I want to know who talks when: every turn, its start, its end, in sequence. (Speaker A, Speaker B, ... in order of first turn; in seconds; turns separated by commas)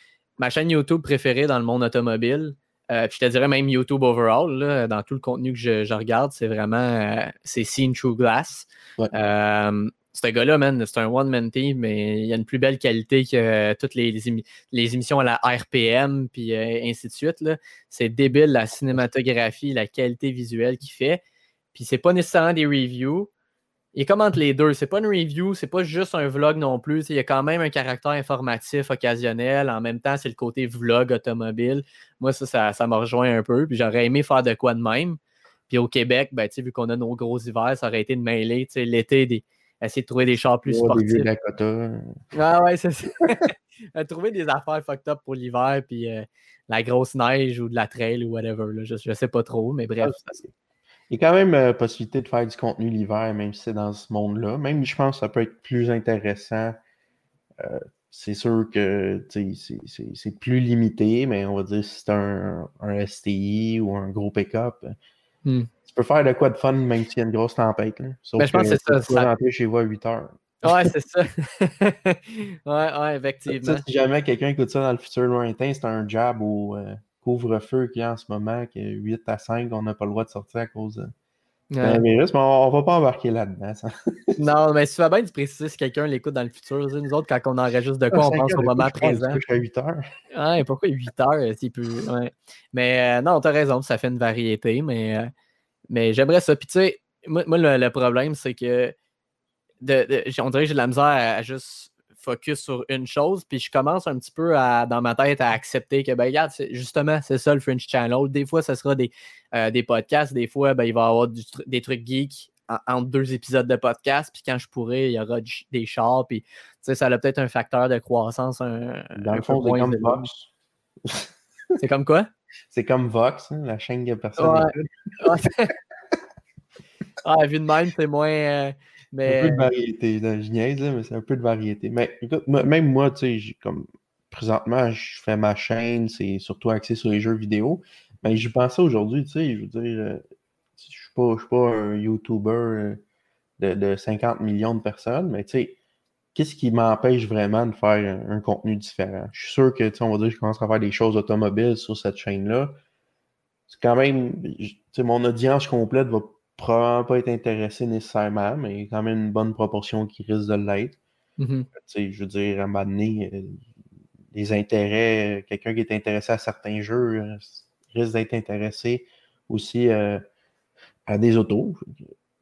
Speaker A: 0.4-21.2, Speaker A: 21.7-23.3, Speaker A: 23.9-35.2, Speaker A: 35.7-41.3, Speaker B: 40.7-42.1, Speaker A: 42.3-50.4, Speaker B: 50.0-50.5, Speaker B: 51.1-56.8, Speaker B: 57.6-65.0, Speaker B: 65.9-70.9, Speaker A: 68.4-69.3, Speaker A: 70.6-73.8, Speaker B: 73.5-81.1, Speaker A: 81.7-82.0, Speaker B: 81.8-84.4, Speaker A: 84.4-89.4, Speaker B: 88.1-90.0, Speaker A: 90.3-95.3, Speaker A: 95.9-98.9, Speaker A: 99.8-120.3, Speaker B: 119.2-120.5, Speaker A: 121.8-122.3, Speaker B: 122.7-124.7, Speaker A: 124.4-125.7, Speaker A: 127.2-129.7, Speaker B: 129.3-140.2, Speaker B: 140.8-143.0, Speaker B: 143.6-145.8, Speaker B: 146.3-152.8, Speaker B: 153.7-161.0, Speaker A: 161.4-161.7, Speaker B: 161.7-163.6, Speaker B: 164.3-170.2, Speaker B: 171.1-172.1